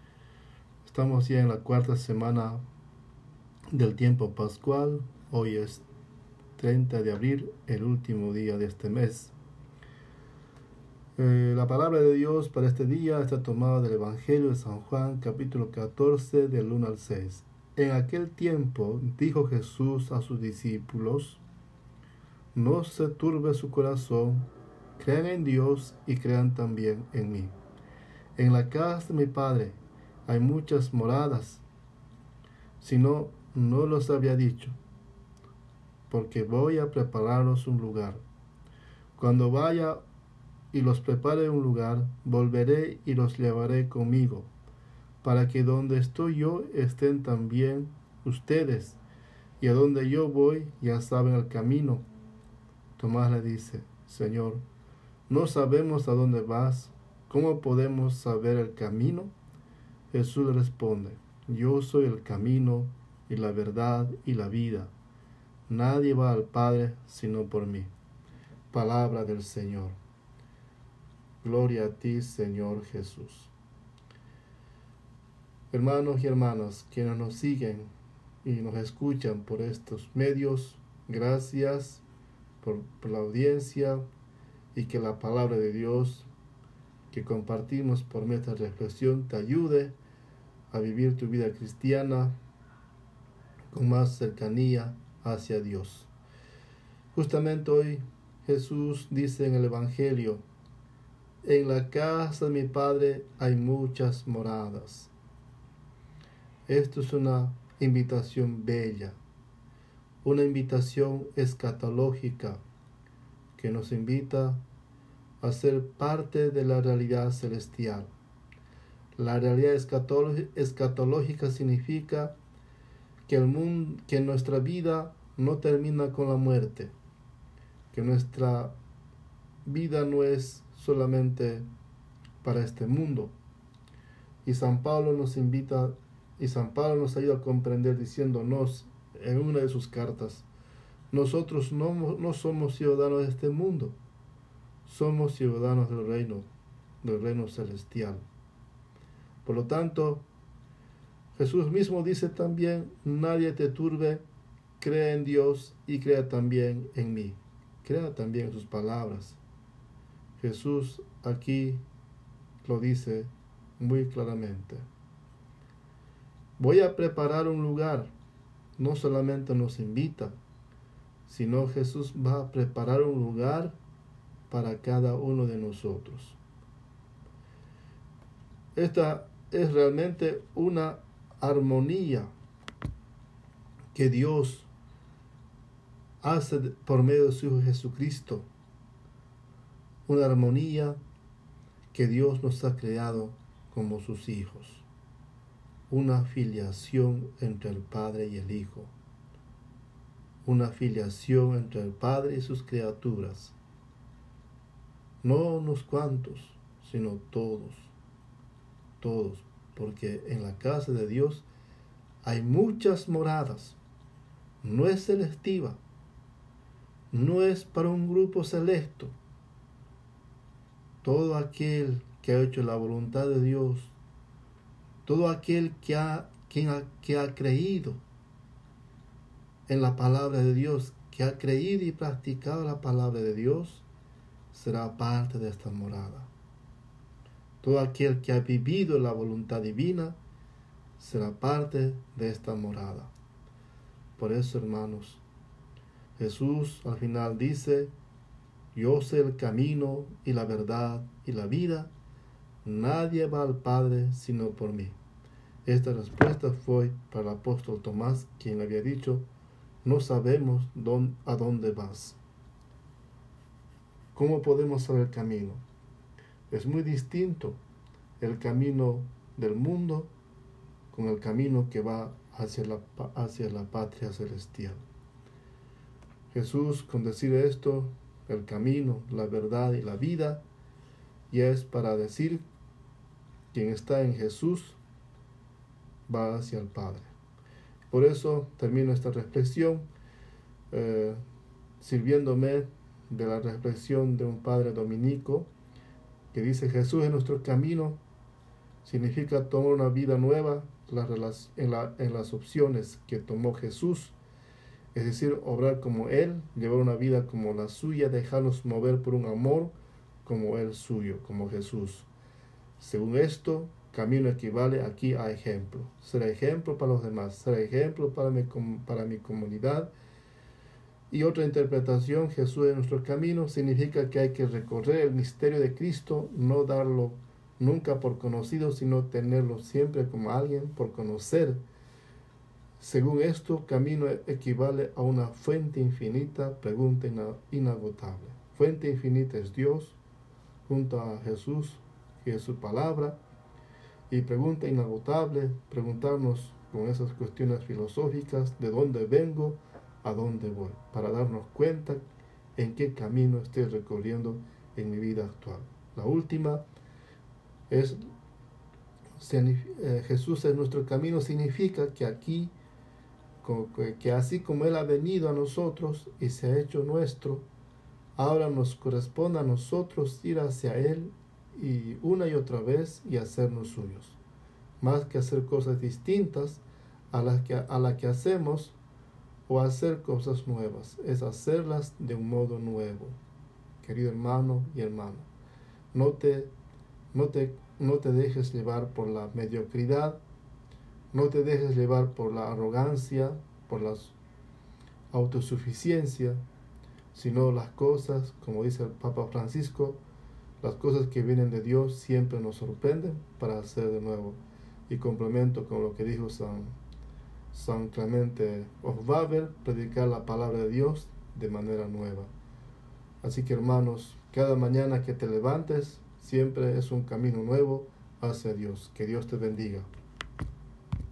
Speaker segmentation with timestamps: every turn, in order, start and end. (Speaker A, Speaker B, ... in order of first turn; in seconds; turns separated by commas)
Speaker A: 0.8-2.6, Speaker A: 3.7-5.8, Speaker A: 6.6-9.3, Speaker A: 11.2-21.4, Speaker A: 22.5-24.4, Speaker A: 25.0-27.5, Speaker A: 28.4-31.6, Speaker A: 32.8-34.7, Speaker A: 36.1-38.2, Speaker A: 39.2-40.0, Speaker A: 40.7-44.5, Speaker A: 45.2-49.0, Speaker A: 49.6-52.0, Speaker A: 53.0-54.6, Speaker A: 55.3-59.3, Speaker A: 60.1-64.9, Speaker A: 65.7-67.9, Speaker A: 68.7-70.0, Speaker A: 71.4-73.5, Speaker A: 75.7-77.9, Speaker A: 78.4-82.0, Speaker A: 82.6-84.0, Speaker A: 84.7-86.3, Speaker A: 87.1-90.0, Speaker A: 90.7-92.4, Speaker A: 93.7-96.1, Speaker A: 97.1-100.4, Speaker A: 101.4-105.1, Speaker A: 106.7-109.2, Speaker A: 110.2-112.6, Speaker A: 113.6-114.6, Speaker A: 115.4-118.1, Speaker A: 119.2-122.4, Speaker A: 123.3-126.9, Speaker A: 127.9-128.8, Speaker A: 129.7-131.7, Speaker A: 132.4-133.3, Speaker A: 134.4-140.5, Speaker A: 141.1-143.9, Speaker A: 144.8-146.5, Speaker A: 147.0-148.2, Speaker A: 149.4-150.2, Speaker A: 151.3-154.2, Speaker A: 154.8-159.4, Speaker A: 160.4-161.8, Speaker A: 162.6-164.9, Speaker A: 166.6-168.1, Speaker A: 168.8-170.4, Speaker A: 171.2-173.8, Speaker A: 174.5-176.4, Speaker A: 178.8-182.3, Speaker A: 183.9-184.7, Speaker A: 186.2-188.5, Speaker A: 190.1-191.0, Speaker A: 191.9-194.8, Speaker A: 195.9-198.9, Speaker A: 200.4-203.5, Speaker A: 205.2-207.9, Speaker A: 209.0-211.5, Speaker A: 212.2-213.8, Speaker A: 214.6-215.8, Speaker A: 217.1-219.2, Speaker A: 221.0-223.9, Speaker A: 225.1-228.0, Speaker A: 229.7-233.8, Speaker A: 234.5-236.3, Speaker A: 237.6-240.2, Speaker A: 241.0-243.1, Speaker A: 244.2-245.2, Speaker A: 246.2-247.9, Speaker A: 248.7-251.9, Speaker A: 252.6-255.0, Speaker A: 255.6-259.3, Speaker A: 259.8-262.2, Speaker A: 264.1-265.6, Speaker A: 266.5-267.6, Speaker A: 268.2-270.1, Speaker A: 270.9-274.8, Speaker A: 276.3-280.4, Speaker A: 281.3-282.4, Speaker A: 283.5-284.8, Speaker A: 286.1-287.1, Speaker A: 287.9-289.9, Speaker A: 290.7-291.2, Speaker A: 291.8-295.5, Speaker A: 296.3-298.0, Speaker A: 298.8-304.2, Speaker A: 304.9-312.1, Speaker A: 312.8-319.9, Speaker A: 321.1-331.6, Speaker A: 332.8-340.0, Speaker A: 340.7-343.2, Speaker A: 344.1-352.0, Speaker A: 352.6-356.6, Speaker A: 357.7-358.0, Speaker A: 359.2-362.5, Speaker A: 363.4-367.4, Speaker A: 368.1-374.2, Speaker A: 374.8-378.8, Speaker A: 379.5-383.2, Speaker A: 383.8-385.3, Speaker A: 385.9-386.5, Speaker A: 387.1-390.2, Speaker A: 391.1-394.2, Speaker A: 395.1-396.4, Speaker A: 397.1-400.0, Speaker A: 400.6-406.8, Speaker A: 407.5-412.3, Speaker A: 413.2-419.9